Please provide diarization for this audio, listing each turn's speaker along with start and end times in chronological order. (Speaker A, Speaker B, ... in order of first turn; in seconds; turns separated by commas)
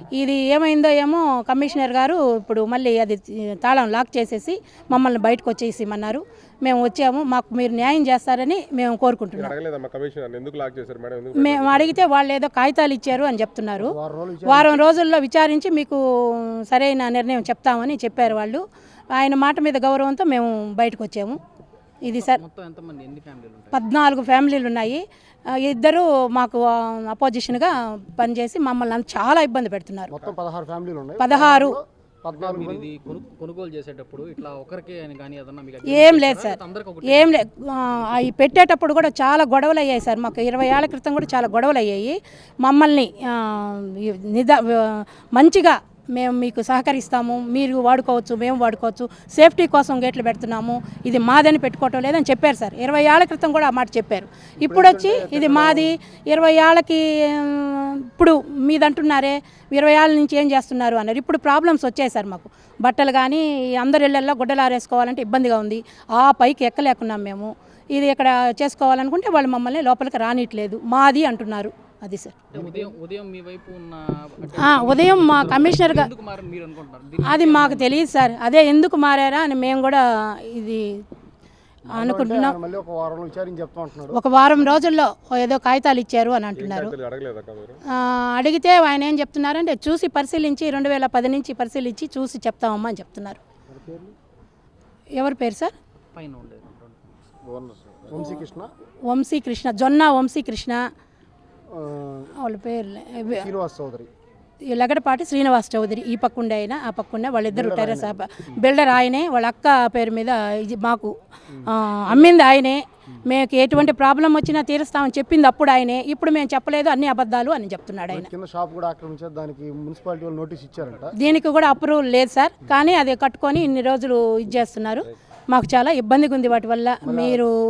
Speaker A: 0.1-9.5, Speaker B: 9.3-11.9, Speaker A: 11.3-13.9, Speaker C: 13.8-14.8, Speaker A: 14.4-21.4, Speaker A: 22.0-22.4, Speaker D: 22.1-23.8, Speaker A: 23.7-25.0, Speaker A: 25.6-30.1, Speaker C: 30.1-32.9, Speaker A: 31.2-31.8, Speaker D: 32.3-37.3, Speaker A: 35.9-72.4, Speaker C: 54.6-55.9, Speaker D: 72.5-77.9, Speaker A: 74.6-76.1, Speaker A: 77.2-81.0, Speaker A: 81.9-82.5, Speaker C: 81.9-84.2, Speaker A: 84.1-86.9, Speaker B: 86.6-87.8, Speaker A: 87.9-93.4, Speaker C: 93.7-94.1, Speaker A: 95.2-95.7, Speaker D: 96.1-97.0, Speaker C: 97.5-98.7, Speaker A: 99.1-100.8, Speaker C: 101.7-102.3, Speaker A: 102.4-103.5, Speaker C: 103.3-104.1, Speaker A: 104.7-111.1, Speaker C: 107.5-108.2, Speaker C: 111.5-112.3, Speaker A: 111.7-118.3, Speaker C: 118.1-121.1, Speaker A: 121.1-127.5, Speaker C: 127.0-127.4